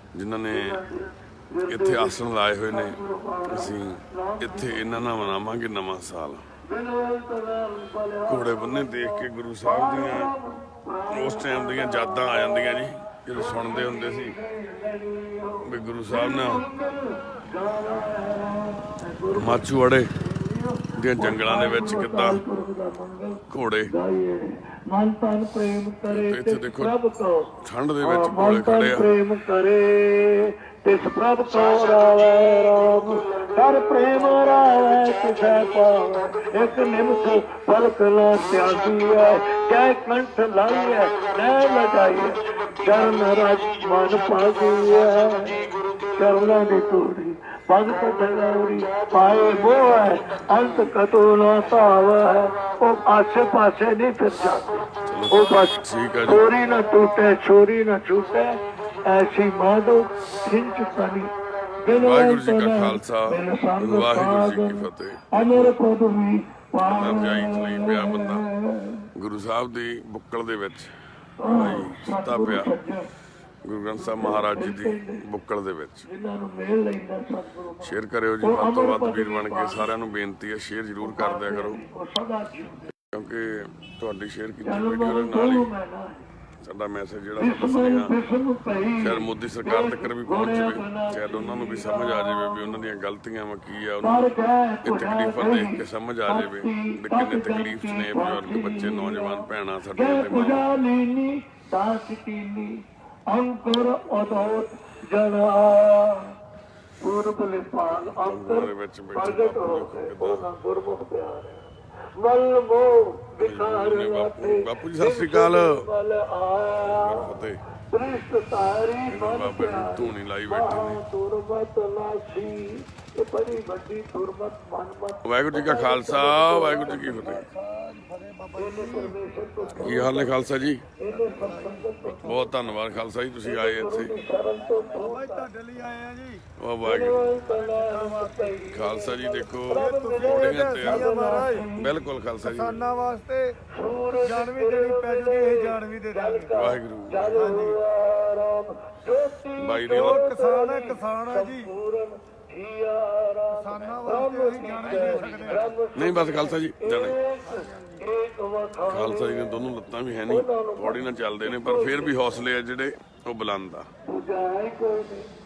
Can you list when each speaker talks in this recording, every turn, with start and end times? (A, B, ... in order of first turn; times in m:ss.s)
0:00.2-0:00.8 A
0:00.5-0:05.1 B
0:01.7-0:06.5 A
0:06.6-0:12.4 B
0:08.3-0:10.3 A
0:11.1-0:14.4 A
0:13.3-1:09.1 B
0:15.6-0:16.6 A
0:19.3-0:20.1 A
0:21.0-0:22.4 A
0:23.5-0:23.9 A
0:26.1-0:27.0 A
0:27.6-0:29.1 A
0:45.7-0:46.2 C
0:48.2-0:50.1 C
0:55.0-0:56.4 A
1:01.9-1:05.8 A
1:06.8-1:08.5 A
1:09.2-1:12.7 A
1:11.4-1:13.1 B
1:13.6-1:16.1 A
1:14.0-1:15.2 B
1:16.1-1:19.9 B
1:17.8-1:21.8 A
1:21.0-1:22.9 B
1:23.0-1:25.7 A
1:24.6-1:26.2 B
1:26.6-1:28.1 A
1:27.4-1:32.6 B
1:29.0-1:40.7 A
1:34.0-1:46.4 B
1:47.0-1:57.3 B
1:47.9-1:50.4 A
1:53.4-1:55.8 A
1:56.8-1:57.6 A
1:57.9-2:07.5 B
1:59.1-2:01.0 A
2:05.2-2:07.5 A
2:07.4-2:09.2 C
2:08.6-2:10.4 B
2:09.8-2:10.9 A
2:11.0-2:12.5 B
2:11.3-2:12.1 C
2:12.2-2:14.1 A
2:13.4-2:15.5 B
2:14.9-2:16.4 C
2:16.6-2:17.5 A
2:16.8-2:21.9 B
2:17.5-2:18.6 C
2:18.7-2:21.2 A
2:19.9-2:21.7 C
2:21.7-2:22.9 A
2:22.4-2:23.6 C
2:23.7-2:39.5 B
2:24.2-2:26.5 C
2:26.5-2:27.5 A
2:27.4-2:27.8 C
2:29.6-2:30.3 A
2:30.0-2:31.7 C
2:33.6-2:35.7 C
2:36.0-2:37.2 A
2:37.5-2:38.0 C
2:38.9-2:43.9 A
2:40.3-2:42.3 B
2:44.0-2:45.3 B